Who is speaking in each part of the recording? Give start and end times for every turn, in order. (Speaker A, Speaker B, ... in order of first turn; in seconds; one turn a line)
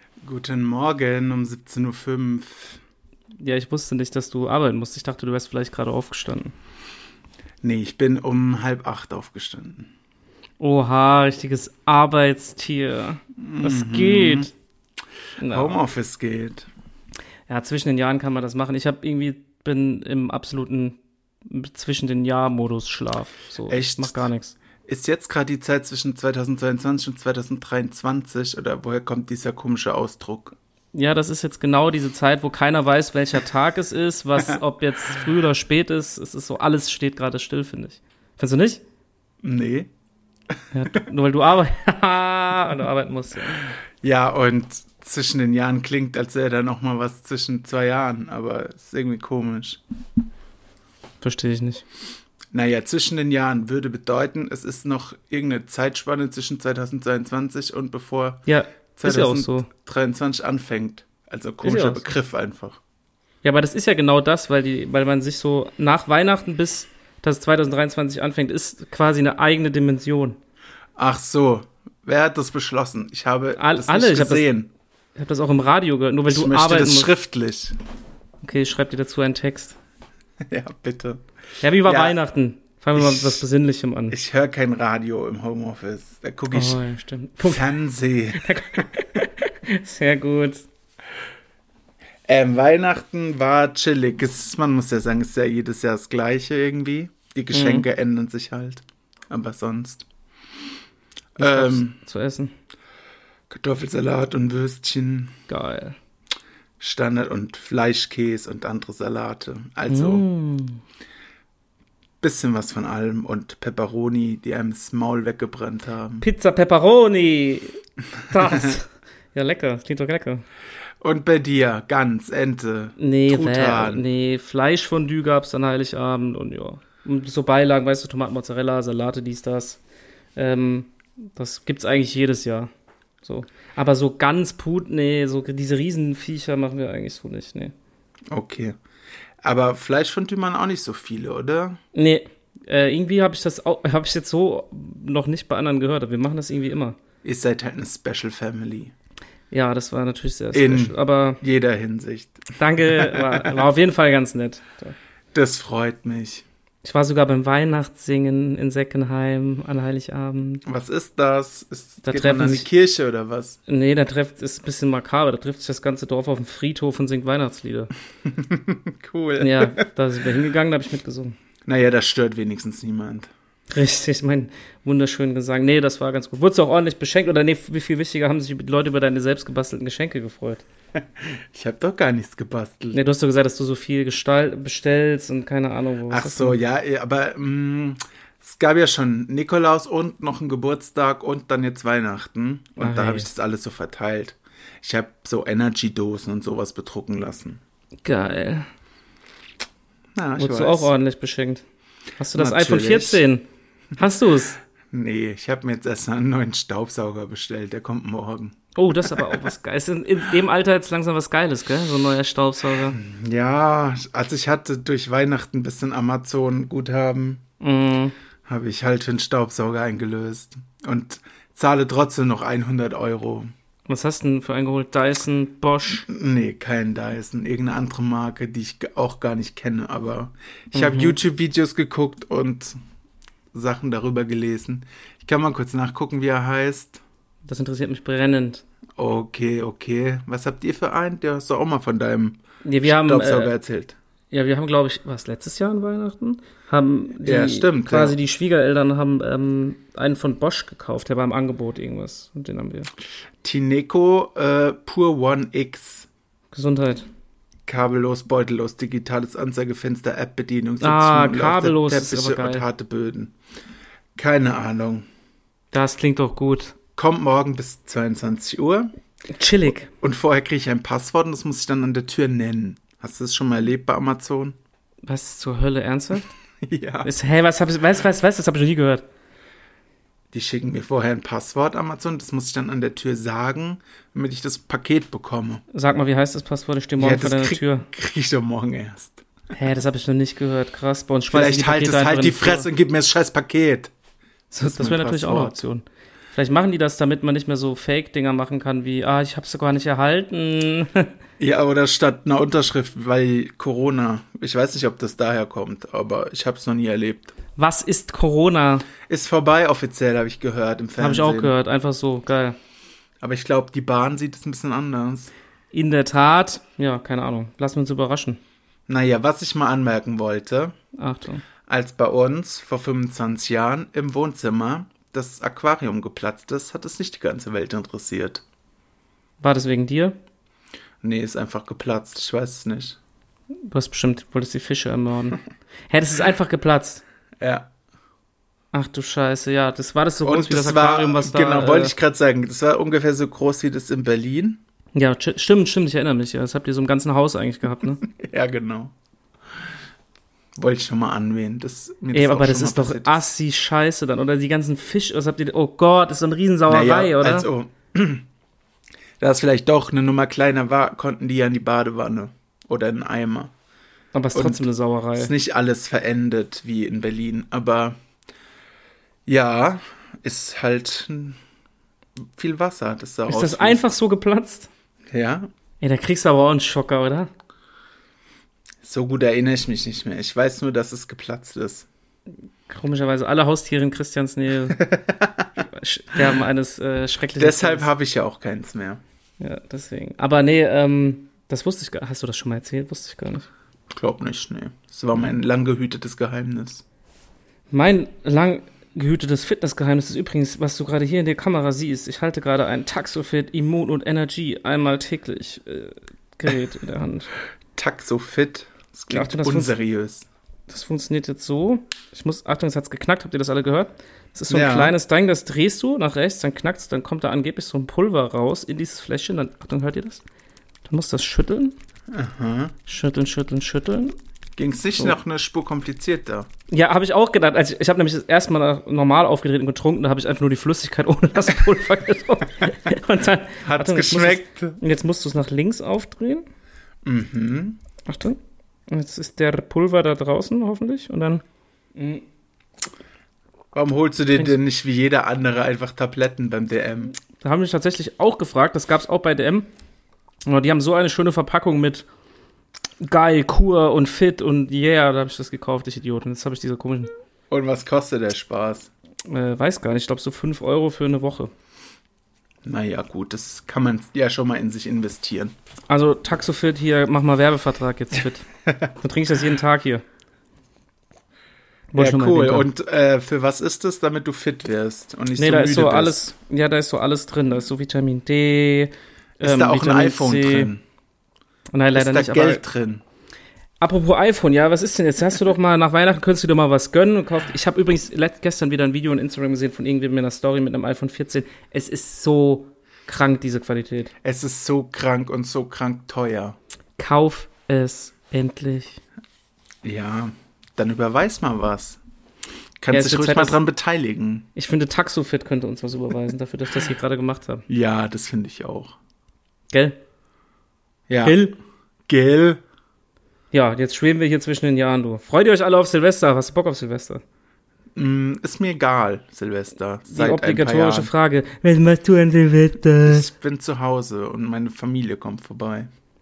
Speaker A: 0.2-2.8
Speaker B: 3.4-6.5
Speaker A: 7.6-9.9
Speaker B: 10.6-14.5
Speaker A: 13.4-14.5
Speaker B: 15.4-15.8
Speaker A: 15.5-16.7
Speaker B: 17.5-24.6
Speaker A: 23.7-24.3
Speaker A: 24.9-30.6
Speaker B: 30.9-38.8
Speaker A: 39.4-39.9
Speaker B: 40.7-43.8
Speaker A: 44.0-49.8
Speaker B: 51.2-51.8
Speaker A: 52.5-58.4
Speaker B: 58.5-59.7
Speaker A: 59.0-62.8
Speaker B: 61.6-62.1
Speaker B: 63.4-70.4
Speaker A: 71.0-74.7
Speaker B: 73.6-74.5
Speaker B: 75.2-77.1
Speaker A: 76.3-77.8
Speaker B: 78.4-79.8
Speaker A: 80.4-81.2
Speaker B: 81.6-84.2
Speaker A: 81.8-82.2
Speaker A: 83.0-83.4
Speaker A: 84.1-86.8
Speaker B: 86.5-87.7
Speaker A: 87.4-88.9
Speaker B: 88.3-90.6
Speaker A: 92.3-100.1
Speaker B: 97.5-97.9
Speaker A: 101.4-102.0
Speaker B: 101.4-102.5
Speaker A: 103.5-105.3
Speaker B: 105.5-106.0
Speaker A: 106.8-110.2
Speaker B: 109.9-110.8
Speaker A: 112.2-116.3
Speaker B: 116.2-117.8
Speaker B: 118.3-120.4
Speaker A: 121.0-124.0
Speaker B: 123.0-129.8
Speaker B: 130.4-132.7
Speaker B: 133.2-137.7
Speaker A: 138.3-138.8
Speaker A: 139.4-141.8
Speaker B: 141.9-147.0
Speaker A: 147.2-148.9
Speaker B: 149.5-151.4
Speaker A: 150.5-153.6
Speaker B: 152.6-154.9
Speaker A: 155.3-156.4
Speaker B: 156.8-160.6
Speaker A: 160.7-163.6
Speaker B: 162.0-162.7
Speaker B: 163.7-167.9
Speaker A: 168.2-169.8
Speaker B: 169.4-171.4
Speaker A: 171.7-173.3
Speaker B: 173.7-180.6
Speaker A: 181.2-183.0
Speaker B: 182.9-186.6
Speaker A: 186.1-197.6
Speaker B: 192.8-193.3
Speaker B: 198.0-198.7
Speaker A: 200.2-200.9
Speaker B: 200.4-201.6
Speaker B: 202.2-203.4
Speaker A: 202.3-203.2
Speaker B: 204.0-204.6
Speaker A: 204.9-209.4
Speaker B: 208.8-213.0
Speaker A: 212.8-217.4
Speaker B: 217.6-218.2
Speaker A: 218.5-223.5
Speaker B: 223.9-226.1
Speaker A: 226.1-232.8
Speaker B: 230.7-231.2
Speaker A: 233.5-237.0
Speaker B: 237.5-238.6
Speaker A: 239.0-244.0
Speaker B: 242.6-243.5
Speaker B: 244.3-252.9
Speaker A: 247.2-248.2
Speaker A: 253.4-256.1
Speaker B: 256.5-257.1
Speaker A: 257.7-263.3
Speaker B: 260.8-262.6
Speaker A: 264.2-265.1
Speaker B: 265.7-266.7
Speaker A: 267.0-268.9
Speaker B: 269.4-269.9
Speaker A: 269.9-274.6
Speaker B: 275.1-276.3
Speaker A: 276.6-277.1
Speaker B: 277.0-279.0
Speaker A: 280.3-285.6
Speaker B: 285.7-287.9
Speaker A: 287.0-289.2
Speaker B: 289.5-292.7
Speaker A: 291.3-293.9
Speaker B: 294.5-301.1
Speaker A: 294.6-295.6
Speaker A: 301.4-307.3
Speaker B: 307.6-308.9
Speaker A: 309.1-311.5
Speaker B: 311.0-312.6
Speaker A: 313.2-315.3
Speaker B: 315.7-318.4
Speaker A: 318.9-320.8
Speaker B: 321.0-321.4
Speaker A: 321.7-328.4
Speaker B: 329.4-330.2
Speaker A: 331.0-333.0
Speaker B: 333.6-337.0
Speaker A: 337.4-337.7
Speaker B: 338.7-341.9
Speaker A: 340.2-344.6
Speaker B: 344.9-348.0
Speaker A: 348.0-348.9
Speaker A: 350.6-353.3
Speaker B: 352.1-357.5
Speaker A: 356.7-358.3
Speaker A: 359.2-363.5
Speaker B: 364.1-365.3
Speaker A: 364.3-364.6
Speaker A: 365.2-368.0
Speaker A: 369.3-371.4
Speaker A: 372.4-373.8
Speaker B: 373.3-374.7
Speaker A: 375.1-375.5
Speaker B: 375.8-377.3
Speaker A: 378.8-381.9
Speaker B: 382.7-384.9
Speaker A: 384.8-385.6
Speaker B: 385.7-387.9
Speaker A: 387.4-389.0
Speaker B: 389.4-393.5
Speaker A: 393.9-396.8
Speaker B: 397.7-407.3
Speaker A: 407.8-410.3
Speaker B: 409.1-409.7
Speaker B: 410.7-420.2
Speaker A: 414.5-414.9
Speaker B: 420.9-421.8
Speaker A: 422.1-422.8
Speaker B: 422.9-424.2
Speaker A: 424.6-426.5
Speaker B: 426.7-436.4
Speaker A: 433.6-434.8
Speaker A: 437.0-437.8
Speaker B: 438.1-441.4
Speaker B: 442.0-442.2
Speaker A: 443.7-447.1
Speaker B: 447.4-449.7
Speaker B: 450.5-452.1
Speaker B: 453.0-457.1
Speaker A: 457.5-458.9
Speaker B: 459.3-461.5
Speaker A: 462.6-465.5
Speaker B: 465.9-468.5
Speaker B: 469.0-470.0
Speaker B: 471.9-472.7
Speaker A: 472.0-476.2
Speaker B: 475.4-480.7
Speaker A: 479.4-480.8
Speaker B: 481.7-482.6
Speaker A: 481.9-483.0
Speaker B: 483.8-494.1
Speaker A: 494.2-496.6
Speaker B: 497.0-499.0
Speaker A: 499.8-502.0
Speaker A: 502.8-504.5
Speaker B: 502.9-503.6
Speaker B: 504.6-507.6
Speaker A: 507.7-508.9
Speaker B: 509.7-510.0
Speaker A: 511.1-511.4
Speaker B: 511.2-511.6
Speaker A: 512.1-512.6
Speaker B: 513.5-517.2
Speaker A: 518.0-521.1
Speaker B: 520.1-523.3
Speaker A: 523.1-525.9